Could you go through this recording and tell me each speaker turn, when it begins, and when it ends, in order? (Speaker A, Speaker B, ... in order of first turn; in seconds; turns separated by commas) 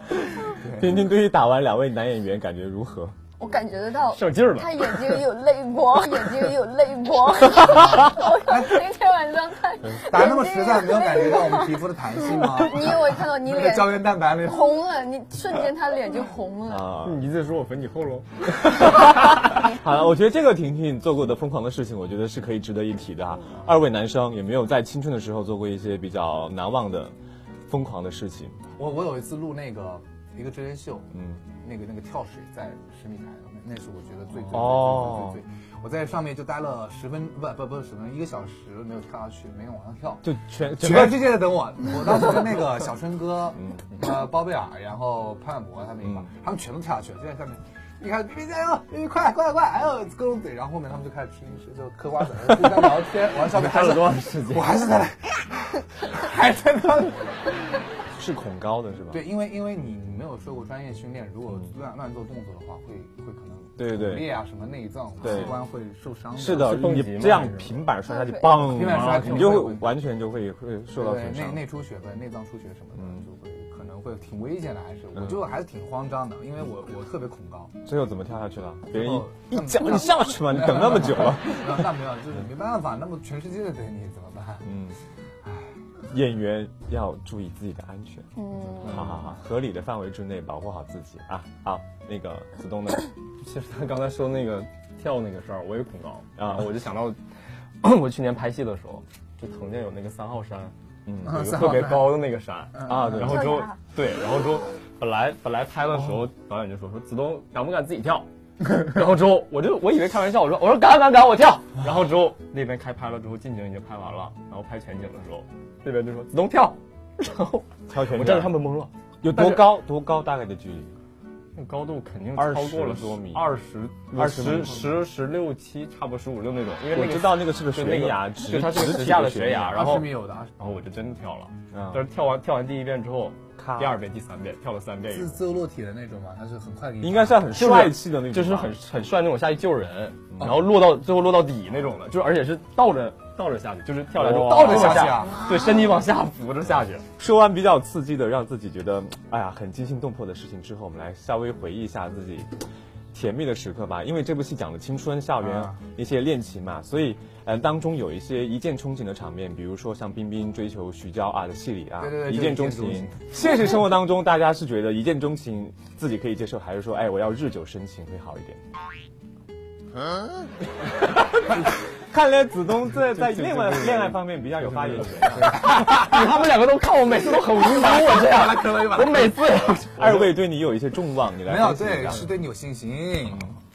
Speaker A: 0.2-3.1, Speaker B: 0.5-1.0, Speaker C: 3.4-16.9, Speaker D: 4.1-5.1, Speaker B: 7.7-8.8, Speaker B: 10.0-14.8, Speaker A: 16.7-17.2, Speaker D: 17.0-18.3, Speaker A: 18.6-27.1, Speaker A: 27.7-28.6, Speaker B: 28.8-40.3, Speaker A: 31.1-31.4, Speaker A: 34.5-35.4, Speaker A: 40.2-41.3, Speaker B: 40.8-57.4, Speaker A: 43.6-43.9, Speaker A: 46.0-46.3, Speaker D: 53.4-54.8, Speaker A: 58.2-59.2, Speaker B: 59.1-66.8, Speaker A: 63.8-64.3, Speaker A: 65.2-65.5, Speaker A: 66.4-71.6, Speaker D: 66.4-67.8, Speaker C: 68.1-68.8, Speaker B: 68.7-69.9, Speaker D: 68.8-69.7, Speaker B: 71.0-77.7, Speaker A: 73.0-73.2, Speaker A: 77.8-81.9, Speaker B: 78.9-84.7, Speaker A: 84.6-85.0, Speaker B: 85.4-85.7, Speaker A: 86.1-88.3, Speaker C: 88.4-89.1, Speaker A: 88.8-93.1, Speaker D: 93.4-97.2, Speaker A: 96.4-96.7, Speaker D: 97.8-119.7, Speaker A: 101.0-101.4, Speaker B: 101.2-102.2, Speaker B: 102.8-103.2, Speaker A: 102.9-103.5, Speaker C: 103.2-103.8, Speaker A: 117.9-118.5, Speaker A: 119.2-120.9, Speaker D: 121.5-135.4, Speaker A: 122.4-123.4, Speaker A: 124.1-124.9, Speaker A: 126.9-129.9, Speaker B: 129.7-130.6, Speaker A: 131.7-132.0, Speaker A: 133.6-134.0, Speaker B: 135.1-137.5, Speaker A: 137.0-138.7, Speaker D: 137.5-147.0, Speaker B: 144.2-145.4, Speaker A: 144.7-145.1, Speaker A: 147.2-152.5, Speaker A: 153.1-168.6, Speaker B: 155.4-155.8, Speaker B: 162.0-163.3, Speaker A: 171.5-175.7, Speaker D: 173.1-180.3, Speaker B: 175.6-176.2, Speaker B: 177.7-179.4, Speaker A: 180.0-182.3, Speaker B: 181.4-183.5, Speaker A: 183.3-183.6